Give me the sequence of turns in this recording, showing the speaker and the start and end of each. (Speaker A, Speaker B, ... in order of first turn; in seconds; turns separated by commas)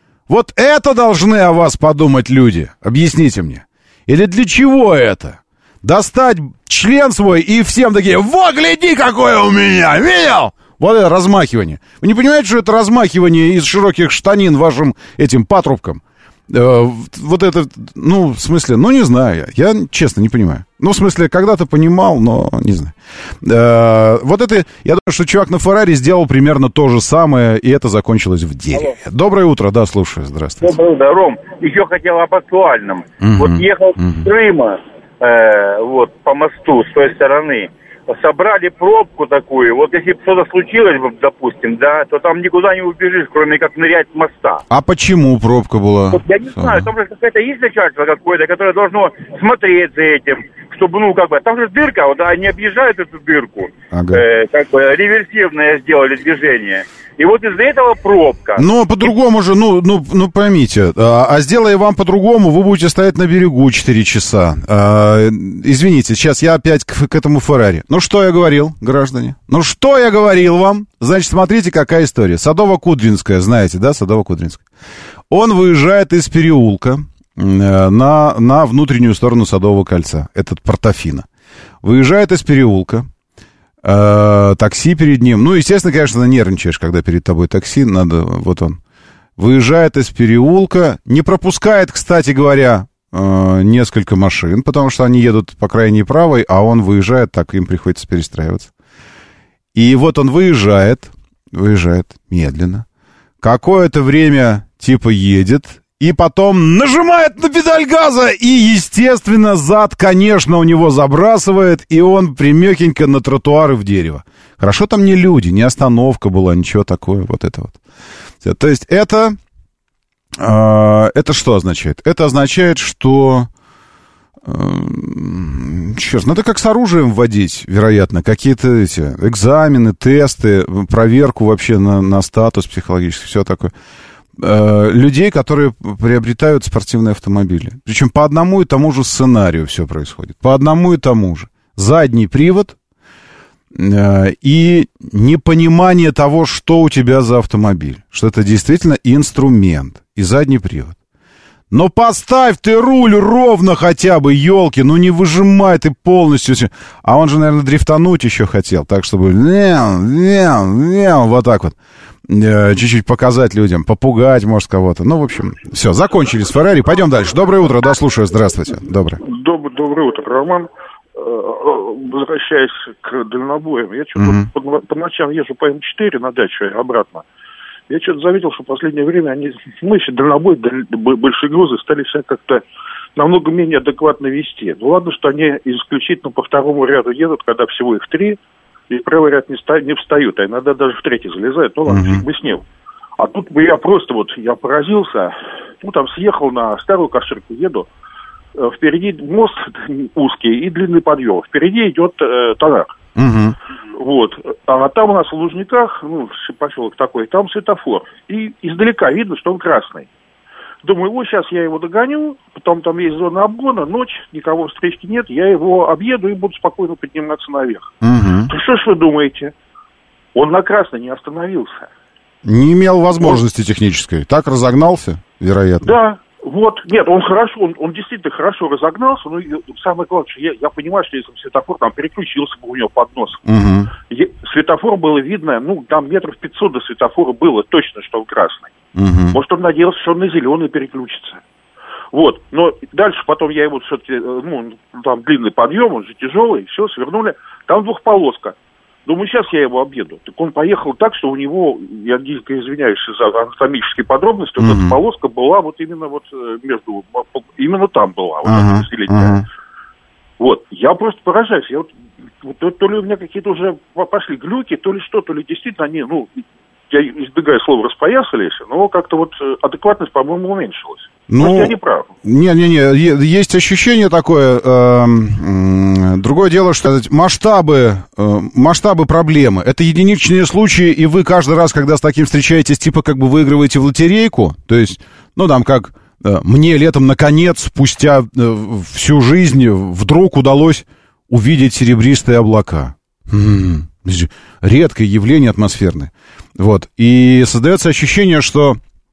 Speaker A: 0.3-30.8, Speaker B: 30.6-44.6, Speaker A: 33.2-34.3, Speaker A: 44.7-46.9, Speaker B: 46.1-58.6, Speaker A: 53.9-54.2, Speaker A: 58.6-74.6, Speaker A: 75.3-81.3, Speaker A: 81.8-83.1, Speaker A: 83.8-88.8, Speaker A: 89.4-98.7, Speaker A: 99.8-102.8, Speaker A: 103.4-117.8, Speaker A: 118.4-119.4, Speaker A: 120.4-123.5, Speaker A: 124.5-133.7, Speaker A: 134.4-142.8, Speaker A: 143.8-151.0, Speaker A: 151.7-161.8, Speaker A: 162.3-169.2, Speaker C: 169.2-177.2, Speaker A: 174.2-174.5, Speaker C: 177.9-182.6, Speaker C: 183.2-188.4, Speaker C: 188.9-192.7, Speaker A: 191.9-192.2, Speaker C: 193.2-197.9, Speaker C: 198.6-202.9, Speaker A: 203.2-203.6, Speaker C: 204.0-210.1, Speaker C: 210.8-217.9, Speaker A: 218.0-218.5, Speaker C: 218.5-219.5, Speaker C: 220.3-221.9, Speaker A: 222.4-225.9, Speaker C: 225.8-233.4, Speaker A: 233.5-233.9, Speaker C: 234.1-238.7, Speaker A: 238.9-239.4, Speaker C: 239.3-241.4, Speaker C: 242.1-259.4, Speaker A: 254.6-255.0, Speaker A: 258.4-259.4, Speaker C: 260.4-261.9, Speaker C: 262.4-272.1, Speaker A: 271.3-298.8